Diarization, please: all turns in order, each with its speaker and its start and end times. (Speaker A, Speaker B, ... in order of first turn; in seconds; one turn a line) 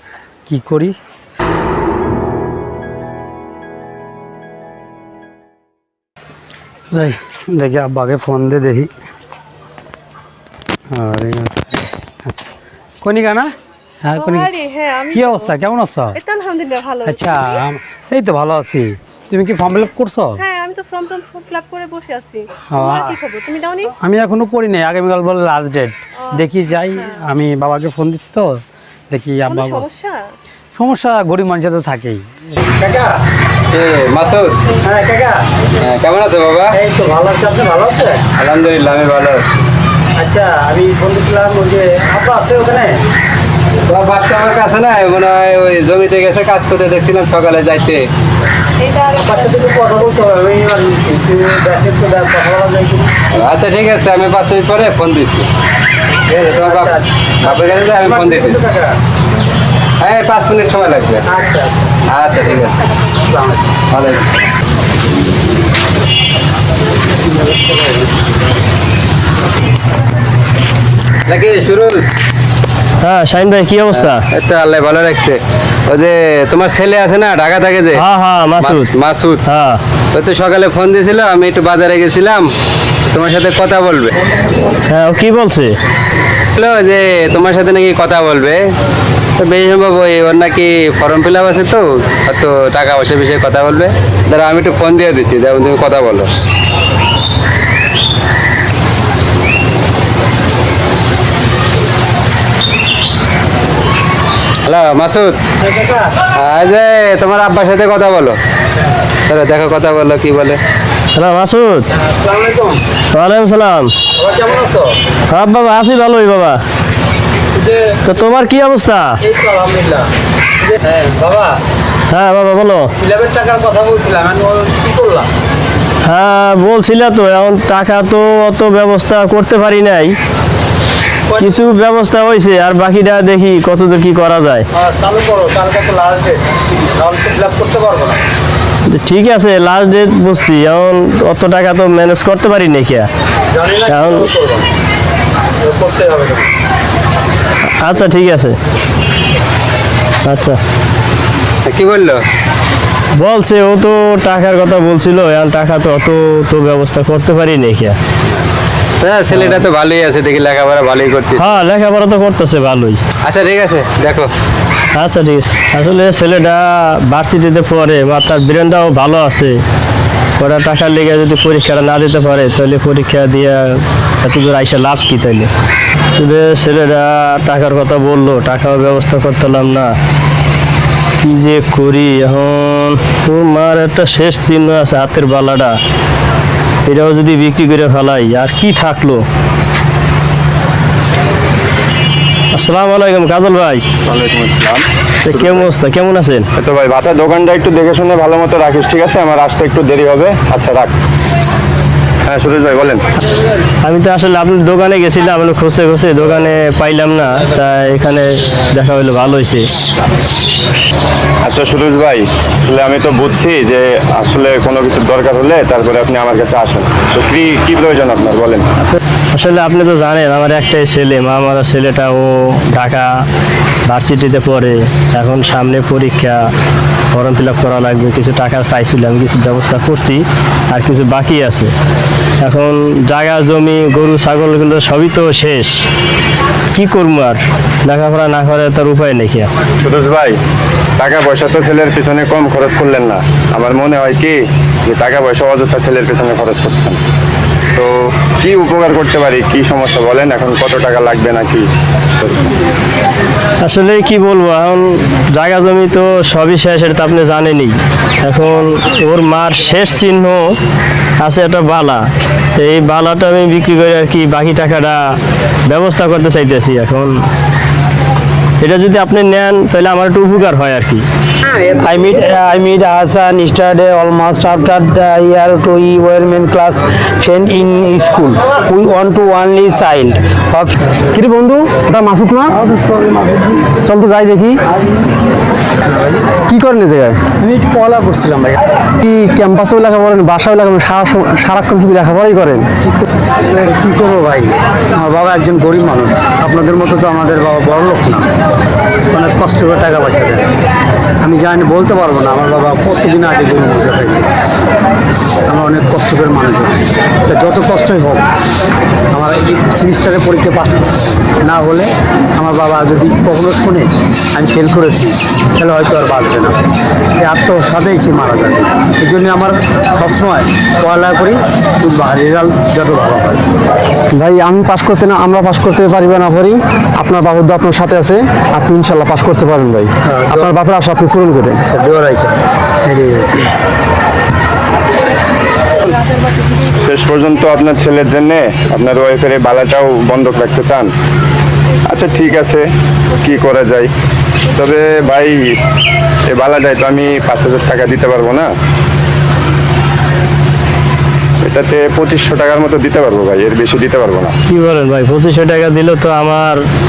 Speaker A: 0.5-0.9
Speaker A: 6.9-8.9
Speaker A: 10.9-12.5
Speaker A: 13.0-13.5
Speaker A: 14.0-14.5
Speaker B: 14.1-15.6
Speaker A: 15.1-16.2
Speaker B: 16.1-17.6
Speaker A: 17.0-20.4
Speaker B: 20.4-23.9
Speaker A: 22.7-23.2
Speaker A: 24.0-29.9
Speaker B: 29.5-30.2
Speaker A: 30.8-33.2
Speaker C: 33.7-34.6
Speaker A: 34.8-35.4
Speaker C: 35.8-36.8
Speaker A: 36.7-38.2
Speaker C: 38.4-39.6
Speaker A: 40.2-43.0
Speaker C: 43.9-48.1
Speaker A: 49.0-53.1
Speaker C: 53.3-55.5
Speaker C: 56.3-58.6
Speaker A: 56.4-59.0
Speaker C: 60.0-61.3
Speaker A: 61.2-62.0
Speaker C: 62.1-62.9
Speaker A: 63.2-63.7
Speaker C: 63.9-64.4
Speaker C: 71.3-72.1
Speaker D: 73.0-74.2
Speaker C: 73.9-78.0
Speaker D: 77.9-78.9
Speaker C: 78.6-79.4
Speaker D: 79.5-79.8
Speaker C: 80.1-82.5
Speaker C: 83.1-84.2
Speaker D: 84.9-85.8
Speaker C: 86.6-88.7
Speaker C: 89.4-96.3
Speaker C: 104.7-105.4
Speaker A: 105.6-106.1
Speaker C: 106.3-108.4
Speaker C: 109.3-110.6
Speaker D: 111.2-111.9
Speaker A: 112.0-112.8
Speaker D: 113.1-113.9
Speaker A: 114.2-114.9
Speaker D: 115.3-116.6
Speaker A: 117.5-118.1
Speaker D: 118.1-119.1
Speaker A: 119.2-120.1
Speaker A: 120.6-121.6
Speaker D: 122.1-122.9
Speaker A: 123.0-125.3
Speaker D: 126.1-130.1
Speaker A: 131.3-131.6
Speaker D: 131.4-134.7
Speaker A: 134.7-138.2
Speaker D: 138.9-143.1
Speaker A: 143.5-144.7
Speaker D: 143.9-144.3
Speaker A: 145.6-146.5
Speaker D: 147.8-148.6
Speaker D: 150.2-150.6
Speaker C: 151.6-152.2
Speaker D: 153.2-158.0
Speaker C: 159.0-161.5
Speaker D: 159.3-159.6
Speaker D: 161.3-163.0
Speaker C: 163.2-164.3
Speaker D: 164.9-169.6
Speaker D: 170.4-175.5
Speaker D: 176.2-179.9
Speaker D: 181.2-185.8
Speaker D: 186.9-189.2
Speaker D: 192.5-193.9
Speaker E: 194.0-195.7
Speaker D: 195.2-196.5
Speaker E: 196.6-200.9
Speaker E: 202.2-203.0
Speaker D: 203.8-209.7
Speaker E: 211.4-218.7
Speaker D: 218.9-223.1
Speaker D: 223.9-226.4
Speaker D: 227.1-231.7
Speaker D: 232.4-235.7
Speaker D: 236.7-239.5
Speaker E: 239.8-240.4
Speaker E: 241.0-247.0
Speaker E: 247.8-252.6
Speaker D: 253.6-260.6
Speaker D: 261.2-262.0
Speaker D: 262.6-265.0
Speaker D: 265.7-267.1
Speaker D: 268.6-271.1
Speaker A: 271.8-280.8
Speaker F: 281.1-282.5
Speaker A: 282.5-283.6
Speaker F: 283.8-284.6
Speaker F: 286.5-287.2
Speaker A: 287.4-288.6
Speaker F: 289.0-292.7
Speaker A: 292.8-298.2
Speaker A: 299.1-300.5
Speaker A: 301.2-304.3
Speaker A: 305.5-308.3
Speaker A: 309.1-316.6
Speaker A: 317.2-323.4
Speaker F: 324.1-331.6
Speaker A: 330.1-330.6
Speaker A: 331.6-333.5
Speaker E: 336.8-340.9
Speaker E: 341.9-342.7
Speaker E: 343.2-343.9
Speaker E: 344.5-345.6
Speaker E: 346.3-348.5
Speaker E: 351.4-354.3
Speaker D: 354.5-356.6